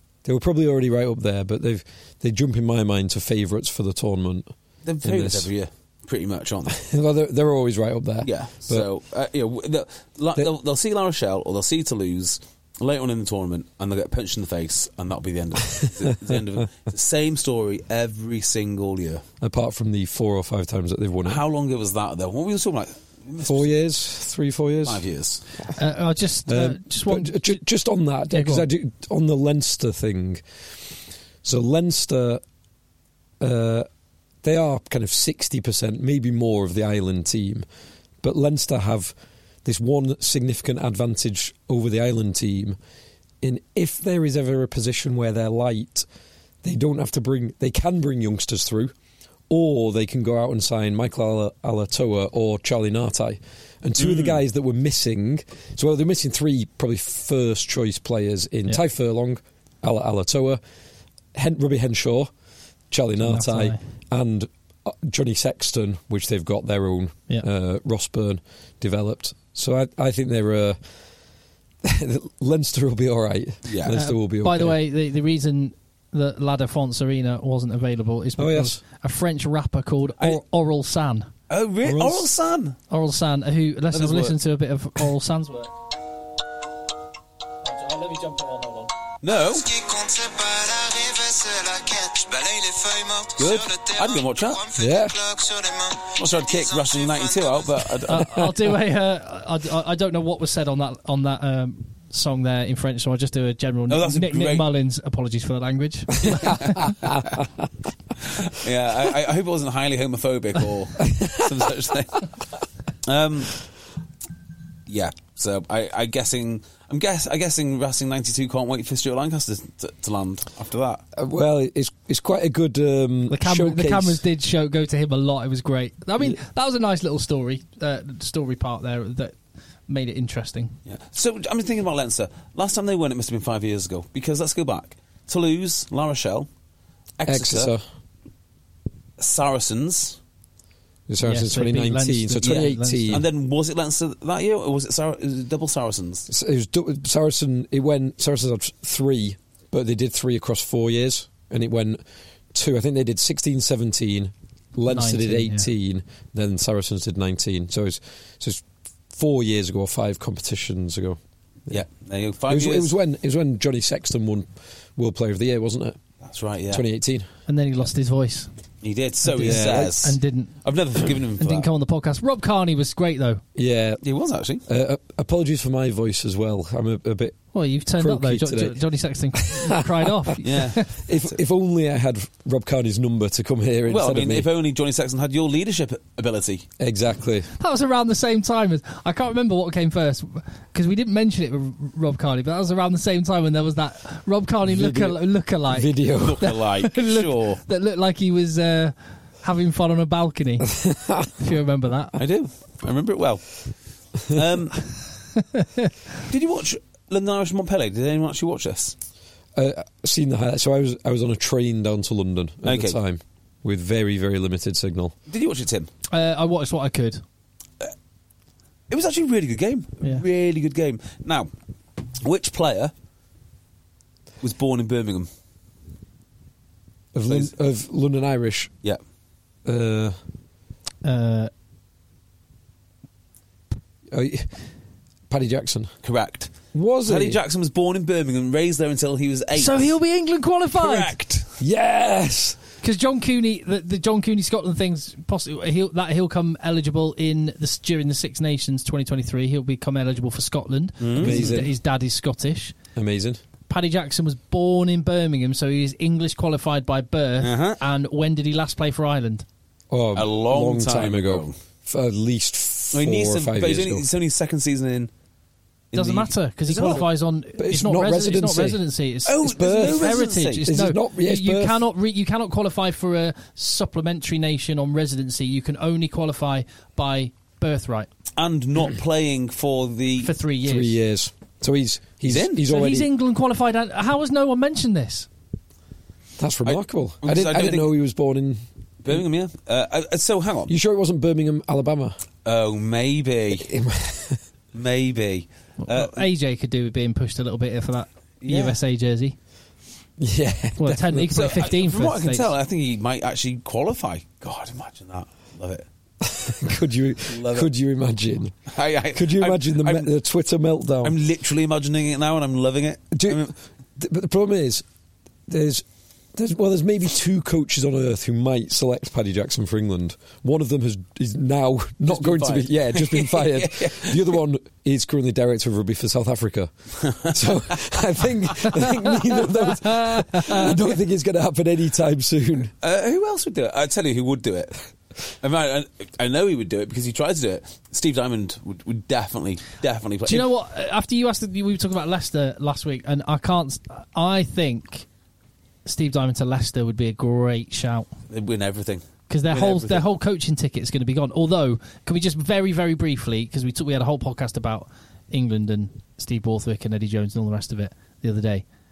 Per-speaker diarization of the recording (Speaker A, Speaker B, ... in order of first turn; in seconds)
Speaker A: 0.2-5.5, 6.7-8.9, 19.4-21.4, 23.4-25.0, 26.5-30.9, 31.4-32.4, 33.4-33.9, 34.4-37.6, 38.2-42.8, 43.4-46.0, 46.6-48.9, 49.5-60.6, 61.3-62.3, 62.9-70.8, 71.8-74.8, 78.4-78.8, 81.8-82.3, 94.8-95.2, 111.0-111.6, 121.1-124.2, 137.2-137.8, 141.1-143.2, 146.3-152.0, 152.5-161.8, 162.5-166.0, 166.7-167.3, 169.4-169.9, 173.5-174.0, 174.7-180.2, 180.8-184.5, 186.8-187.5, 194.6-196.5, 200.7-201.3, 209.5-215.1, 227.1-228.7, 229.6-230.2, 234.1-234.6, 235.3-235.9, 236.7-237.4, 241.6-242.6, 251.1-251.7, 252.9-253.4, 259.9-264.1, 267.6-268.8, 269.4-271.8, 280.6-283.1, 286.4-288.6, 290.7-292.2, 293.6-294.4, 300.2-301.3, 306.2-308.5, 309.1-311.1, 313.1-314.8, 315.5-315.8, 316.3-332.7
Speaker B: 4.8-6.8, 8.2-19.2, 21.2-23.7, 24.8-25.4, 54.0-54.4, 73.7-73.9, 81.5-82.8, 83.9-84.3, 89.2-89.7, 93.4-94.6, 96.2-98.4, 103.9-104.7, 106.2-106.8, 108.3-112.3, 113.0-113.6, 114.9-121.0, 130.8-136.5, 137.2-137.7, 139.2-140.2, 142.4-146.3, 161.7-162.9, 166.2-166.8, 168.8-171.7, 174.0-174.6, 180.4-181.3, 183.9-186.7, 196.2-197.6, 202.2-203.6, 204.3-204.8, 206.3-208.9, 212.6-213.0, 215.3-215.9, 218.9-221.5, 222.2-222.9, 224.4-225.3, 236.0-236.5, 237.1-239.9, 240.7-241.5, 251.0-251.6, 257.4-257.8, 260.1-261.5, 262.9-265.1, 265.9-267.0, 269.2-270.6, 278.4-280.3, 282.2-282.6, 286.6-287.9, 289.0-290.7, 292.4-293.7, 294.7-296.2, 298.4-298.8, 301.3-305.8, 307.3-307.7, 308.7-310.1, 311.0-313.5, 322.1-324.4, 327.0-327.4, 332.8-340.5, 348.3-350.0
Speaker C: 25.8-27.6, 28.3-28.6, 63.2-63.8, 73.9-81.3, 82.9-85.7, 87.6-88.9, 98.1-106.9, 123.3-129.4, 129.9-130.8, 141.2-143.2, 154.9-155.7, 167.5-168.5, 169.2-170.6, 171.4-173.4, 177.5-180.8, 187.6-200.7, 201.4-202.2, 205.4-205.9, 216.1-217.2, 231.0-231.5, 239.5-241.1, 242.8-252.7, 253.7-259.4, 265.9-278.1, 280.2-280.9, 282.7-285.3, 295.8-299.4, 300.8-302.5, 330.0-330.6, 340.3-345.1, 345.8-348.1, 349.3-358.6
Speaker D: 89.5-97.8